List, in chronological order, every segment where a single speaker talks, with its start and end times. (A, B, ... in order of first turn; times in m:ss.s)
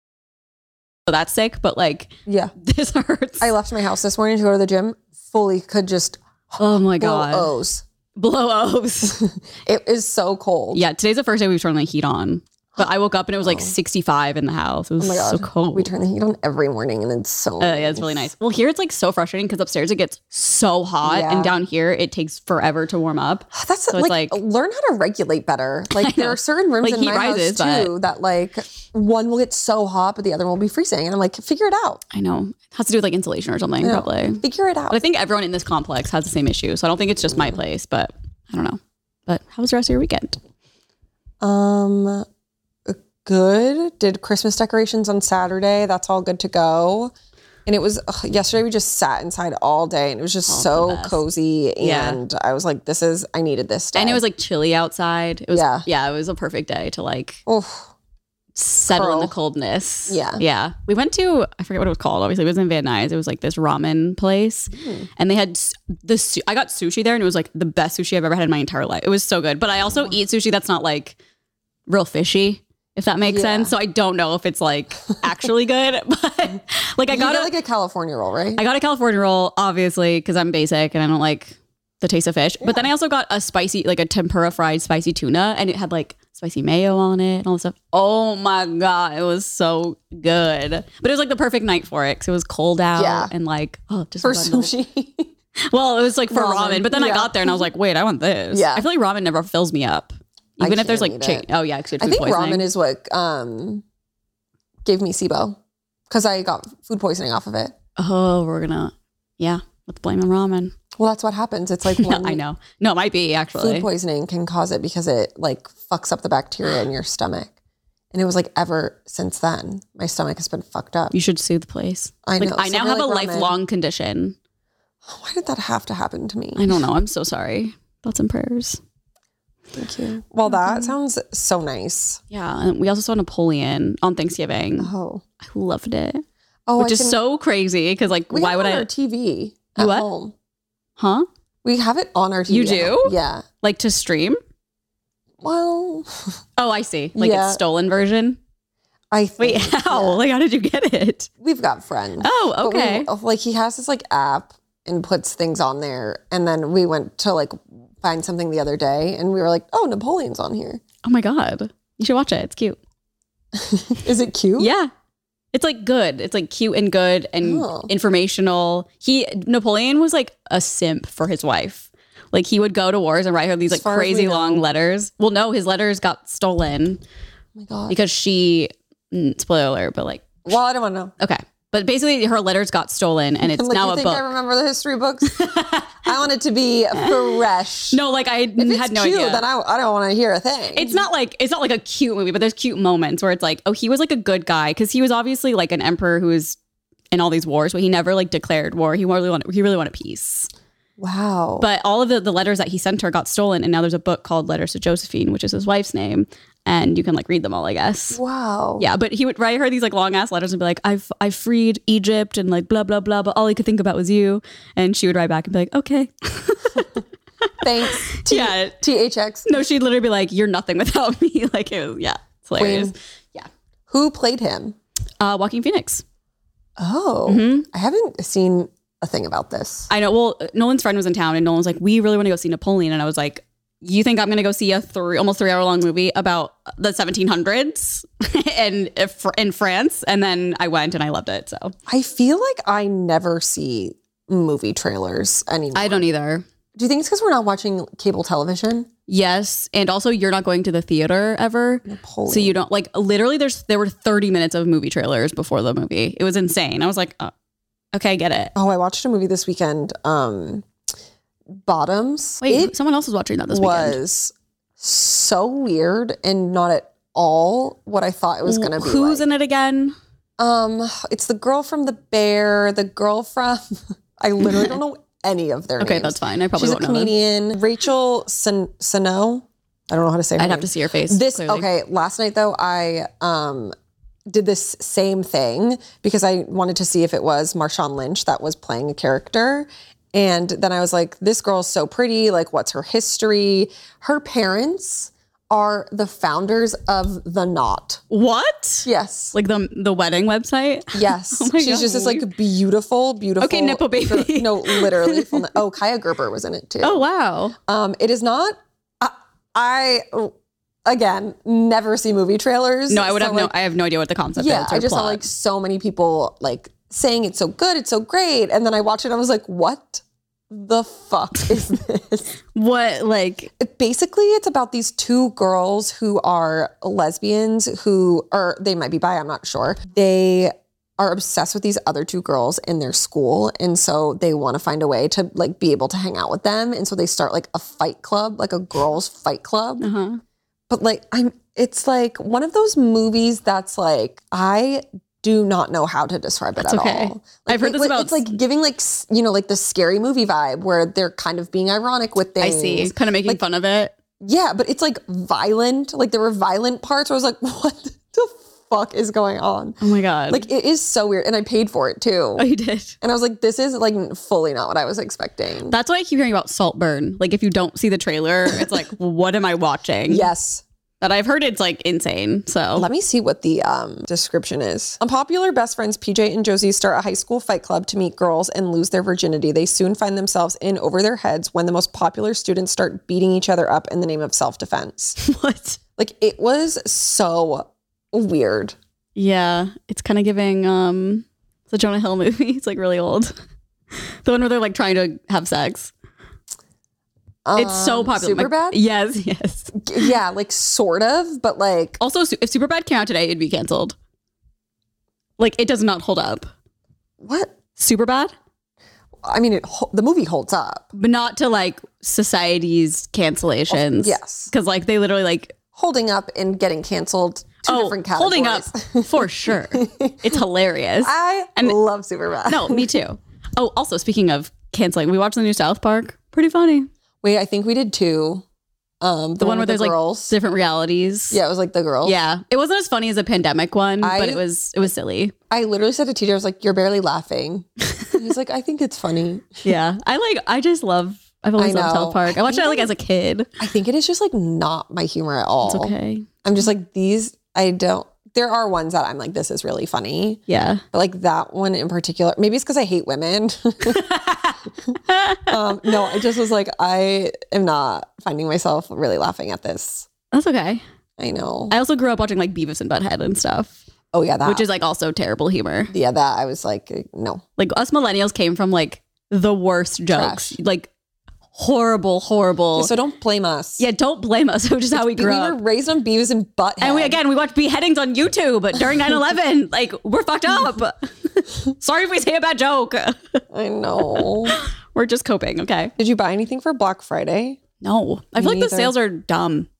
0:01.1-0:03.5 A
0:02.3-0:02.5 B
0:03.4-0:07.8 B
0:06.6-0:07.5 A
0:08.2-0:09.2 A
0:09.2-0:10.8 B
0:10.7-0:15.9 A
0:13.4-0:13.7 B
0:15.0-0:18.3 B
0:17.6-0:24.4 A
0:21.0-0:21.5 B
0:23.5-0:32.0 B
0:25.9-0:27.9 A
0:32.1-0:40.4 A
0:33.8-0:35.0 B
0:41.4-0:42.2 B
0:42.8-0:47.1 B
0:47.6-0:54.2 B
0:50.4-0:51.2 A
0:51.8-0:52.2 A
0:53.9-0:57.4 A
0:55.5-0:55.8 B
0:57.5-0:57.9 B
0:58.5-1:11.2 A
0:58.9-0:59.3 B
1:00.1-1:00.4 B
1:04.8-1:05.0 B
1:11.9-1:17.5 A
1:13.2-1:13.7 B
1:17.1-1:18.6 B
1:18.6-1:34.7 A
1:33.0-1:33.3 B
1:34.2-1:35.3 B
1:35.7-1:42.7 A
1:36.3-1:37.6 B
1:38.5-1:38.9 B
1:40.6-1:41.4 B
1:42.0-1:43.8 B
1:44.8-1:45.6 B
1:46.1-1:47.7 B
1:48.0-1:50.7 A
1:51.0-1:52.4 B
1:51.9-1:53.9 A
1:53.5-1:57.5 B
1:58.1-2:01.1 B
2:01.1-2:04.4 A
2:02.2-2:03.6 B
2:05.0-2:06.7 B
2:06.6-2:08.8 A
2:09.7-2:12.2 B
2:10.4-2:10.9 A
2:12.3-2:16.2 A
2:14.8-2:15.2 B
2:16.7-2:17.2 B
2:16.8-2:18.9 A
2:18.3-2:20.3 B
2:19.8-2:20.1 A
2:21.0-2:21.2 A
2:21.6-2:23.4 B
2:22.5-2:24.4 A
2:25.4-2:26.4 B
2:26.6-2:28.4 A
2:27.2-2:27.6 B
2:29.1-2:30.2 B
2:29.4-2:31.3 A
2:31.4-2:40.8 B
2:32.2-2:33.1 A
2:41.0-2:42.8 A
2:43.5-2:44.7 B
2:44.6-2:44.9 A
2:45.5-2:57.0 A
2:47.4-2:47.9 B
2:53.7-2:54.6 B
2:57.6-2:58.0 B
2:57.9-3:00.4 A
3:00.4-3:01.1 B
3:01.2-3:04.2 A
3:03.4-3:05.4 B
3:05.2-3:06.1 A
3:06.0-3:08.0 B
3:06.9-3:07.3 A
3:07.9-3:09.4 A
3:08.6-3:11.0 B
3:10.7-3:16.6 A
3:17.1-3:20.5 A
3:21.0-3:21.6 B
3:21.6-3:28.2 A
3:28.1-3:28.8 B
3:28.8-3:37.0 A
3:37.6-3:39.5 B
3:37.8-3:38.8 A
3:39.4-3:43.5 A
3:42.6-3:42.9 B
3:43.9-3:44.8 B
3:45.2-3:46.0 A
3:46.8-3:49.9 B
3:47.3-3:47.6 A
3:49.9-4:01.7 A
4:01.9-4:06.0 B
4:05.7-4:06.4 A
4:06.8-4:08.9 B
4:09.1-4:17.3 A
4:11.8-4:12.5 B
4:17.9-4:18.5 A
4:18.5-4:20.7 B
4:21.6-4:22.7 B
4:22.4-4:24.0 A
4:23.5-4:29.2 B
4:28.4-4:30.0 A
4:30.4-4:43.7 B
4:34.4-4:34.7 A
4:35.8-4:37.1 A
4:40.4-4:41.7 A
4:44.3-4:58.0 B
4:58.1-5:02.3 A
4:58.8-4:59.3 B
5:00.9-5:07.0 B
5:03.4-5:05.5 A
5:06.8-5:07.5 A
5:07.7-5:10.3 B
5:10.8-5:13.5 B
5:12.9-5:15.2 A
5:14.4-5:22.4 B
5:22.5-5:23.5 A
5:23.6-5:39.9 B
5:39.8-5:40.2 A
5:40.7-5:53.4 B
5:46.6-5:48.3 A
5:52.4-5:53.9 A
5:54.2-5:59.8 B
5:59.8-6:00.4 A
6:00.3-6:02.4 B
6:02.4-6:02.9 A
6:03.0-6:05.8 B
6:05.7-6:10.3 A
6:10.1-6:10.6 B
6:11.0-6:12.9 A
6:12.8-6:25.2 B
6:25.2-6:25.8 A
6:26.0-6:28.8 B
6:29.2-6:33.3 A
6:34.2-6:35.9 A
6:37.4-6:38.8 B
6:37.6-6:40.1 A
6:39.8-6:42.0 B
6:42.0-6:44.0 A
6:45.4-6:46.5 A
6:47.2-6:47.5 B
6:47.8-6:48.3 A
6:49.2-6:50.9 B
6:50.9-6:55.6 A
6:53.7-6:54.5 B
6:55.7-7:00.4 B
6:57.6-7:01.8 A
7:01.0-7:02.9 B
7:02.4-7:06.9 A
7:07.2-7:08.4 B
7:09.0-7:10.3 B
7:09.4-7:11.4 A
7:11.3-7:12.2 B
7:12.0-7:15.3 A
7:14.0-7:14.4 B
7:15.5-7:19.6 B
7:19.6-7:23.5 A
7:21.6-7:22.9 B
7:23.6-7:25.9 B
7:25.6-7:26.3 A
7:26.4-7:34.1 B
7:30.5-7:30.8 A
7:33.8-7:35.5 A
7:35.5-7:40.1 B
7:40.3-7:40.8 A
7:41.2-7:41.7 B
7:41.7-7:43.8 A
7:44.1-7:44.6 B
7:44.4-7:45.9 A
7:45.9-7:47.4 B
7:47.6-7:50.9 A
7:50.1-7:50.5 B
7:51.5-7:52.9 A
7:52.8-7:53.8 B
7:53.8-7:55.6 A
7:54.9-7:57.2 B
7:56.8-8:03.4 A
8:03.5-8:04.6 B
8:04.0-8:05.9 A
8:06.0-8:07.6 B
8:07.8-8:09.7 A
8:08.4-8:08.9 B